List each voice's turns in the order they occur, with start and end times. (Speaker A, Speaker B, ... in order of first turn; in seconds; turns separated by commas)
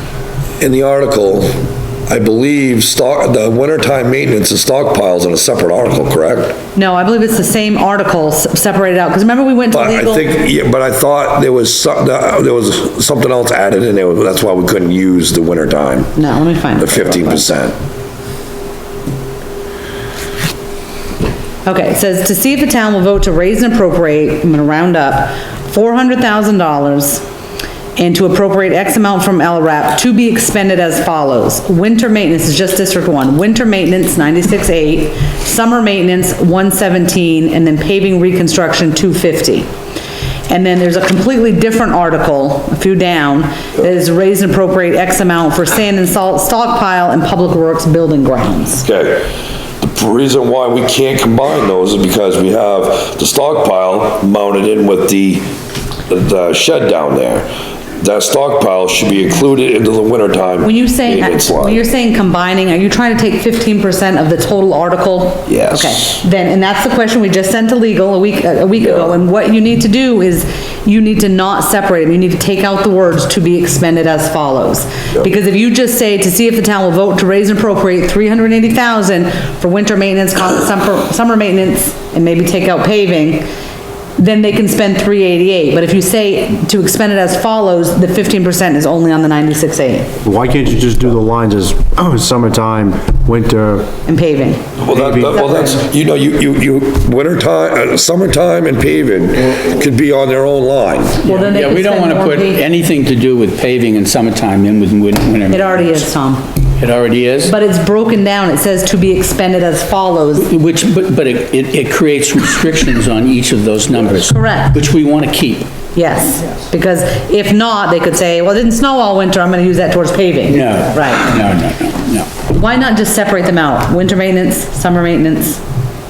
Speaker A: 0.6-6.6, Speaker B: 6.8-10.3, Speaker A: 9.7-16.1, Speaker B: 16.2-17.4, Speaker A: 16.8-17.8, Speaker B: 21.6-27.2, Speaker B: 28.0-39.7, Speaker B: 40.5-48.9, Speaker A: 48.8-49.3, Speaker A: 49.8-55.5, Speaker A: 56.1-57.5, Speaker A: 58.0-61.8, Speaker B: 60.6-83.5, Speaker A: 65.5-66.2, Speaker A: 68.8-69.1, Speaker B: 84.2-90.1, Speaker C: 90.2-94.0, Speaker B: 94.1-94.7, Speaker A: 94.8-101.2, Speaker C: 94.9-95.4, Speaker B: 95.3-95.8, Speaker D: 101.2-106.1, Speaker B: 101.2-102.6, Speaker B: 105.5-106.5, Speaker D: 106.8-107.5, Speaker B: 107.4-110.5, Speaker D: 110.4-115.7, Speaker B: 114.2-114.8, Speaker B: 115.9-121.3, Speaker D: 120.5-122.3, Speaker B: 122.5-125.6